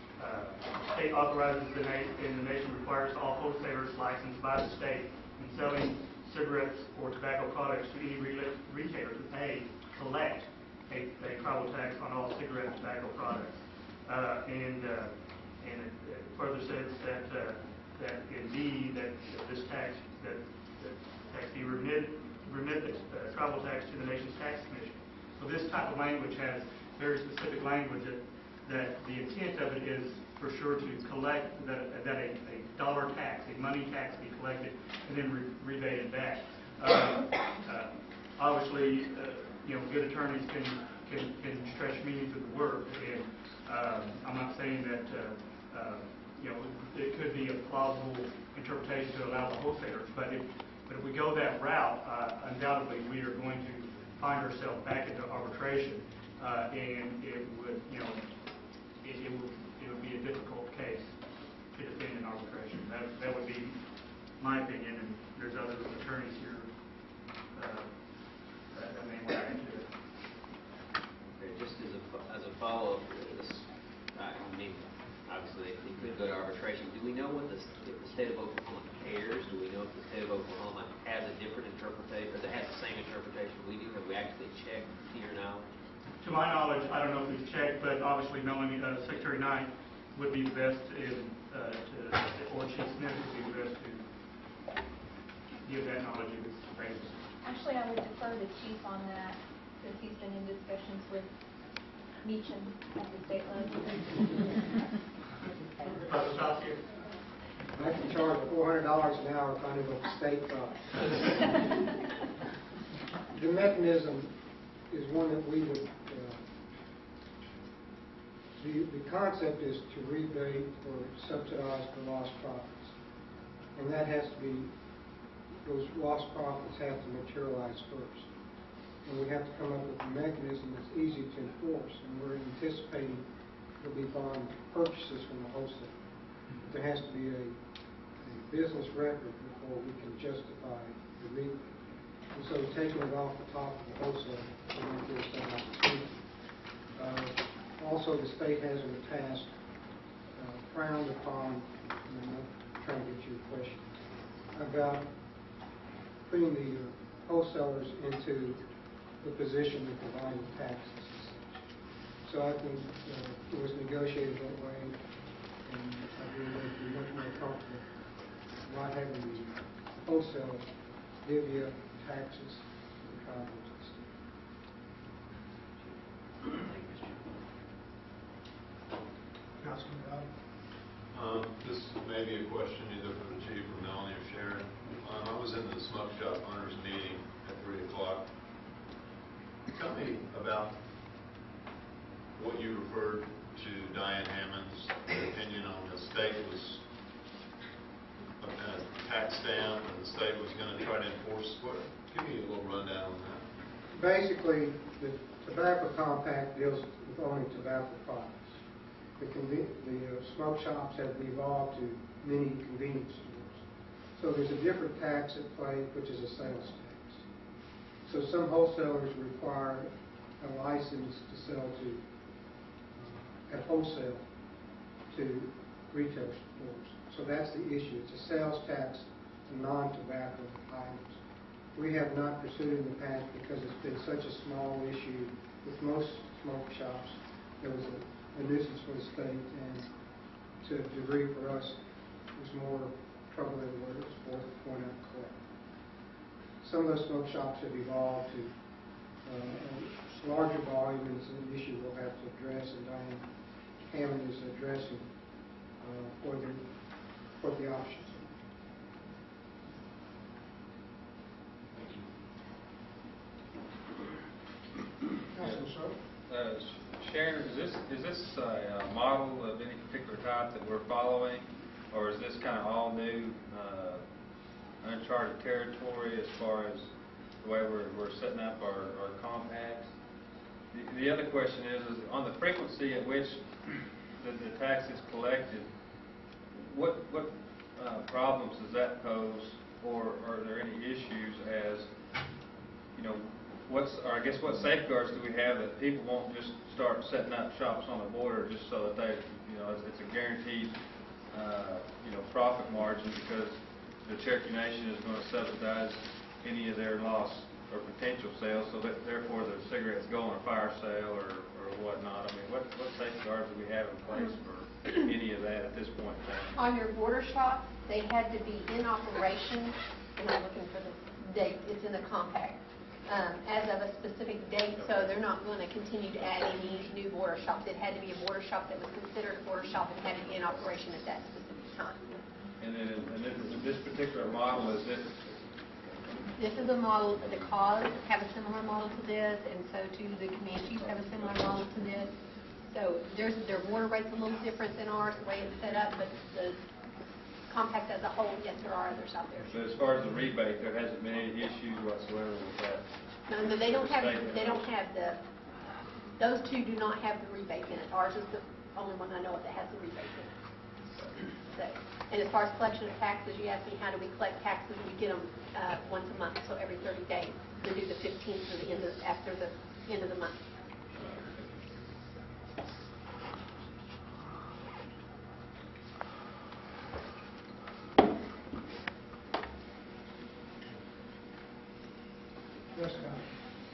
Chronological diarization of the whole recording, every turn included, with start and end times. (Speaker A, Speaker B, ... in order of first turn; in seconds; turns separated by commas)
Speaker A: 0.2-58.2, Speaker A: 59.0-61.1, Speaker A: 61.7-63.8, Speaker A: 64.4-66.7, Speaker A: 67.5-67.9, Speaker A: 68.7-69.9, Speaker B: 71.4-85.6, Speaker A: 86.2-94.0, Speaker A: 95.6-97.2, Speaker C: 97.4-101.2, Speaker C: 102.2-104.0, Speaker A: 106.0-106.8, Speaker D: 107.7-111.4, Speaker D: 113.3-114.3, Speaker D: 114.9-116.4, Speaker D: 118.6-122.9, Speaker D: 123.7-124.7, Speaker D: 125.6-128.3, Speaker D: 129.0-133.2, Speaker D: 133.8-136.0, Speaker D: 136.6-137.6, Speaker D: 138.2-141.6, Speaker D: 142.3-146.2, Speaker D: 146.9-149.5, Speaker D: 150.3-153.9, Speaker D: 154.5-155.1, Speaker D: 156.3-158.6, Speaker D: 159.2-161.4, Speaker D: 162.2-164.9, Speaker D: 165.6-167.8, Speaker D: 168.6-170.7, Speaker D: 171.2-174.1, Speaker E: 179.6-180.3, Speaker F: 181.1-188.2, Speaker F: 189.7-190.7, Speaker F: 192.3-196.8, Speaker F: 198.4-203.4, Speaker D: 203.9-208.5, Speaker D: 209.2-213.6, Speaker D: 214.2-217.2, Speaker D: 218.0-222.0, Speaker D: 222.9-224.2, Speaker D: 225.1-231.2, Speaker D: 231.7-239.9, Speaker D: 240.6-241.8, Speaker D: 242.3-245.4, Speaker D: 246.6-248.5, Speaker D: 249.2-253.2, Speaker D: 253.8-255.1, Speaker D: 255.8-256.7, Speaker D: 257.4-258.3, Speaker E: 265.3-266.0, Speaker G: 266.3-274.0, Speaker G: 274.8-276.9, Speaker G: 277.4-279.9, Speaker G: 280.7-283.6, Speaker G: 284.2-285.7, Speaker G: 286.5-291.9, Speaker G: 292.9-300.7, Speaker G: 301.3-316.5, Speaker H: 316.5-332.0, Speaker G: 324.8-325.1, Speaker G: 332.6-335.1, Speaker H: 336.4-342.1, Speaker H: 342.7-346.6, Speaker H: 347.5-349.5, Speaker G: 349.4-352.8, Speaker H: 353.3-355.2, Speaker G: 353.5-354.6, Speaker H: 356.2-360.3, Speaker H: 361.5-370.3, Speaker E: 382.7-383.2